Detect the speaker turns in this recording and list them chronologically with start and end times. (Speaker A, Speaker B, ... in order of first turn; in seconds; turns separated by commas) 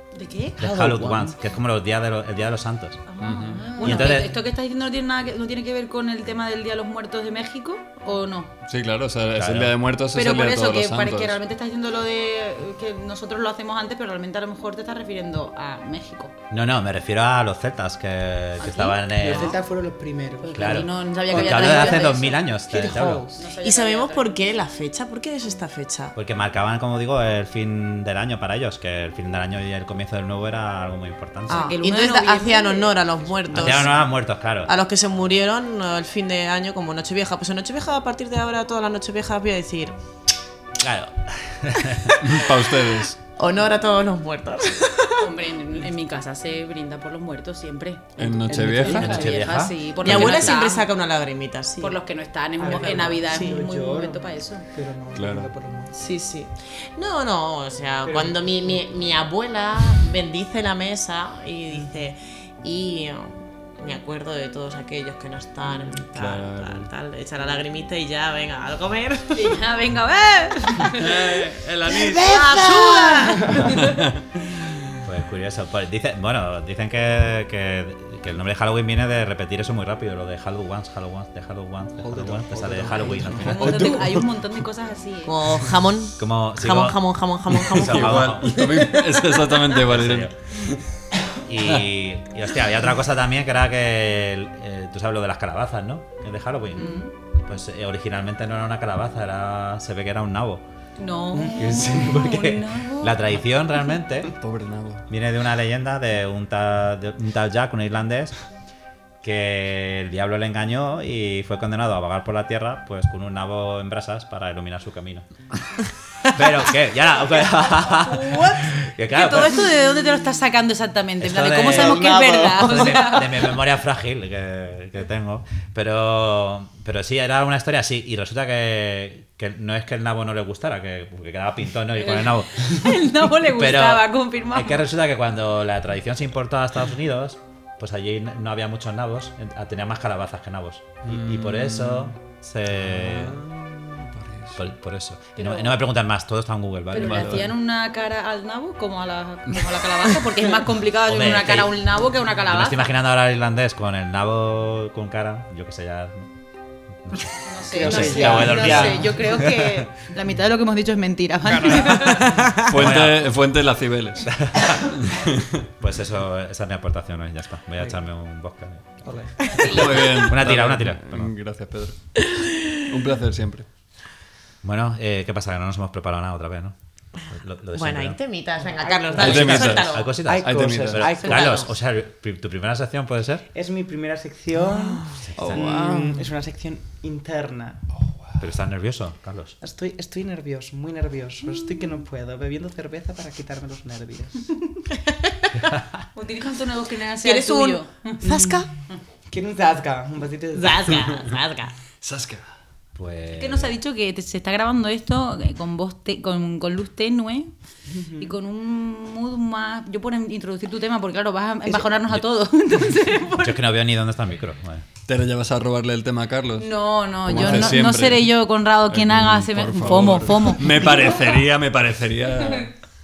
Speaker A: 0.1-0.6, Speaker B: 0.6-1.4, Speaker C: 0.6-3.1, Speaker A: 3.1-8.5, Speaker D: 3.2-3.7, Speaker C: 3.8-4.4, Speaker D: 8.7-11.4, Speaker C: 9.3-9.8, Speaker A: 10.1-16.3, Speaker C: 16.5-19.6, Speaker A: 18.6-19.6, Speaker B: 19.2-23.4, Speaker A: 20.4-22.4, Speaker C: 20.5-23.3, Speaker A: 23.4-24.4, Speaker E: 23.6-26.1, Speaker C: 26.1-31.7, Speaker E: 31.5-34.1, Speaker A: 31.5-33.0, Speaker B: 33.5-33.8, Speaker C: 33.5-34.7, Speaker E: 34.7-40.0, Speaker C: 40.8-42.2, Speaker D: 42.2-43.2, Speaker E: 43.4-45.3, Speaker A: 45.2-50.9, Speaker D: 48.2-49.2, Speaker B: 48.5-49.3, Speaker C: 48.8-50.5, Speaker E: 50.0-52.0, Speaker A: 51.8-54.7, Speaker B: 52.6-56.0, Speaker E: 52.6-53.6, Speaker D: 55.1-55.5, Speaker E: 55.9-69.6, Speaker B: 58.0-58.4, Speaker D: 66.0-66.9, Speaker A: 69.3-74.0, Speaker D: 71.0-72.3, Speaker B: 71.9-73.8, Speaker E: 72.1-73.2, Speaker D: 73.8-74.2, Speaker C: 75.1-84.0, Speaker B: 82.0-84.2, Speaker A: 83.4-85.4, Speaker E: 85.3-88.5, Speaker C: 86.2-87.0, Speaker C: 87.6-88.7, Speaker D: 87.7-90.8, Speaker C: 89.8-90.3, Speaker C: 91.5-100.6, Speaker A: 96.8-97.1, Speaker A: 101.0-103.2, Speaker C: 101.5-104.3, Speaker D: 104.4-105.1, Speaker C: 105.1-108.3, Speaker C: 109.2-115.3, Speaker C: 116.3-119.7, Speaker A: 117.7-123.5, Speaker C: 121.2-132.9, Speaker B: 121.7-122.3, Speaker A: 132.0-134.8, Speaker C: 133.4-143.4, Speaker D: 141.1-142.2, Speaker D: 142.7-144.6, Speaker C: 144.6-147.4, Speaker A: 145.4-145.8, Speaker A: 146.9-152.9, Speaker D: 147.0-147.5, Speaker C: 151.1-151.8, Speaker C: 152.4-156.3, Speaker C: 157.1-159.9, Speaker A: 157.4-162.5, Speaker B: 157.7-159.2, Speaker D: 161.5-164.3, Speaker C: 162.7-163.3, Speaker C: 164.2-165.2, Speaker D: 165.2-165.6, Speaker C: 165.8-171.3, Speaker B: 169.1-169.3, Speaker D: 169.6-172.1, Speaker E: 172.3-172.8, Speaker D: 172.9-173.7, Speaker C: 174.6-176.7, Speaker C: 177.3-178.2, Speaker E: 177.7-180.2, Speaker B: 178.8-181.7, Speaker D: 179.2-181.1, Speaker C: 179.2-183.5, Speaker E: 181.2-181.7, Speaker B: 183.5-187.8, Speaker E: 184.8-185.2, Speaker C: 185.2-185.8, Speaker D: 185.4-186.3, Speaker C: 188.4-189.6, Speaker B: 189.6-194.5, Speaker E: 195.1-195.4, Speaker A: 196.2-198.4, Speaker E: 197.2-198.7, Speaker B: 198.2-198.7, Speaker B: 199.3-201.0, Speaker E: 200.5-201.8, Speaker D: 202.0-202.5, Speaker C: 203.0-203.8, Speaker A: 203.3-207.5, Speaker B: 207.9-208.3, Speaker A: 208.2-213.6, Speaker B: 211.7-211.9, Speaker C: 213.4-214.9, Speaker D: 215.1-218.4, Speaker A: 216.6-221.4, Speaker D: 218.9-222.7